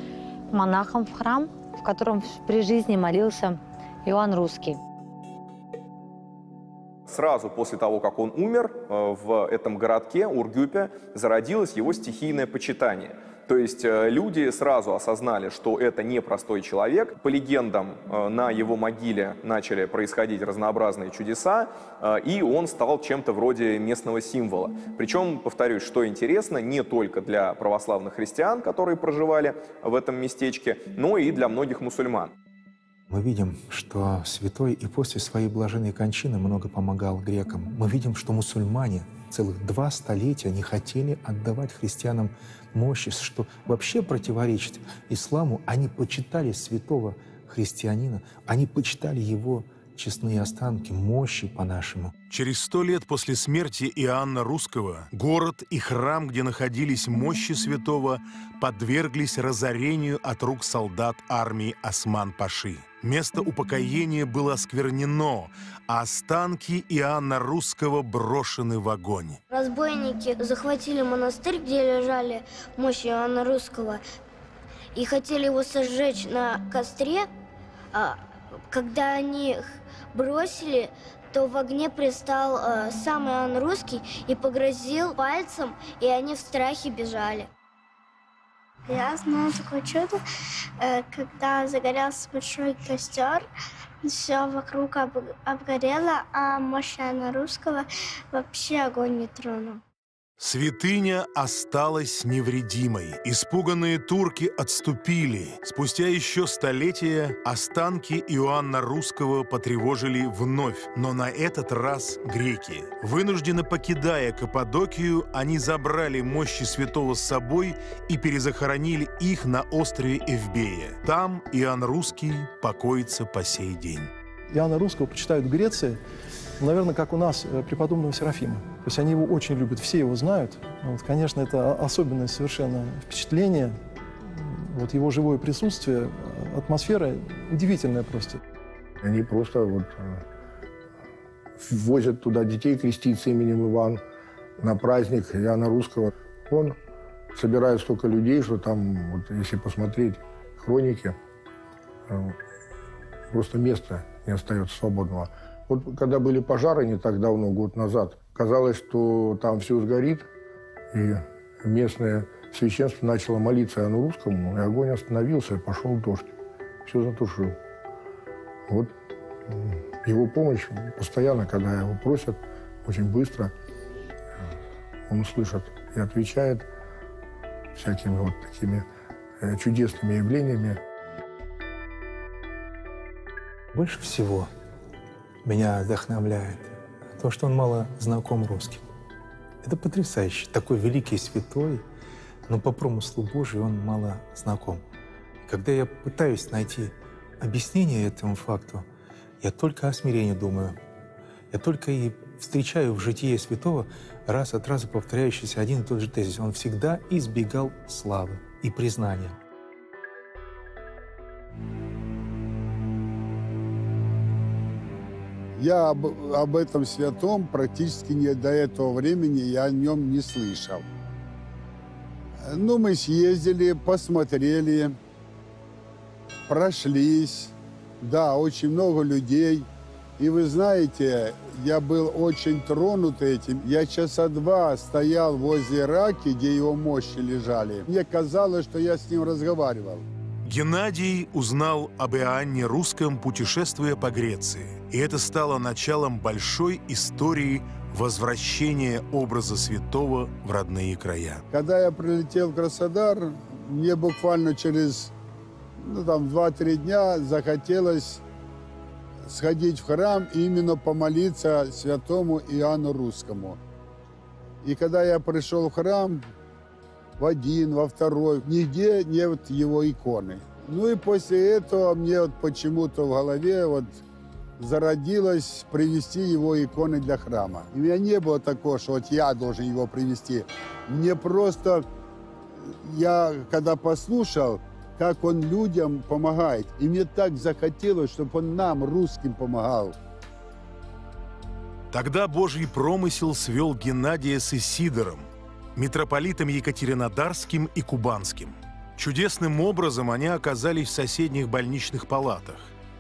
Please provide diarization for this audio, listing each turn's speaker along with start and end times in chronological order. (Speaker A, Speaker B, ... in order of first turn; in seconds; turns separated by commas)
Speaker A: 0.5-4.8, Speaker B: 7.1-32.3, Speaker C: 33.1-52.1, Speaker D: 52.3-69.4, Speaker E: 69.5-74.0, Speaker E: 75.0-77.3, Speaker E: 77.9-78.2, Speaker E: 78.7-87.5, Speaker F: 88.9-90.2, Speaker F: 90.8-93.5, Speaker F: 94.0-99.8, Speaker D: 100.4-124.1, Speaker G: 124.5-126.0, Speaker G: 126.6-133.8, Speaker G: 134.3-138.4, Speaker H: 139.0-140.2, Speaker H: 141.6-144.0, Speaker H: 144.6-146.8, Speaker H: 147.3-151.2, Speaker H: 152.1-152.4, Speaker H: 153.3-160.3, Speaker H: 160.9-166.3, Speaker H: 166.8-167.6, Speaker H: 168.7-168.9, Speaker H: 169.5-173.5, Speaker H: 175.1-176.7, Speaker H: 177.8-178.9, Speaker H: 179.4-180.8, Speaker C: 183.7-184.5, Speaker C: 185.4-188.9, Speaker C: 189.6-191.8, Speaker C: 192.5-194.8, Speaker C: 195.4-198.9, Speaker C: 199.4-200.8, Speaker C: 201.5-209.4, Speaker I: 215.6-220.9, Speaker I: 222.4-225.0, Speaker I: 226.5-229.7, Speaker I: 230.2-240.1, Speaker D: 240.4-251.4, Speaker I: 251.5-255.1, Speaker I: 255.8-258.2, Speaker I: 259.3-263.6, Speaker I: 264.6-266.3, Speaker I: 267.2-274.0, Speaker I: 274.6-281.9, Speaker I: 282.7-290.0, Speaker D: 291.9-302.7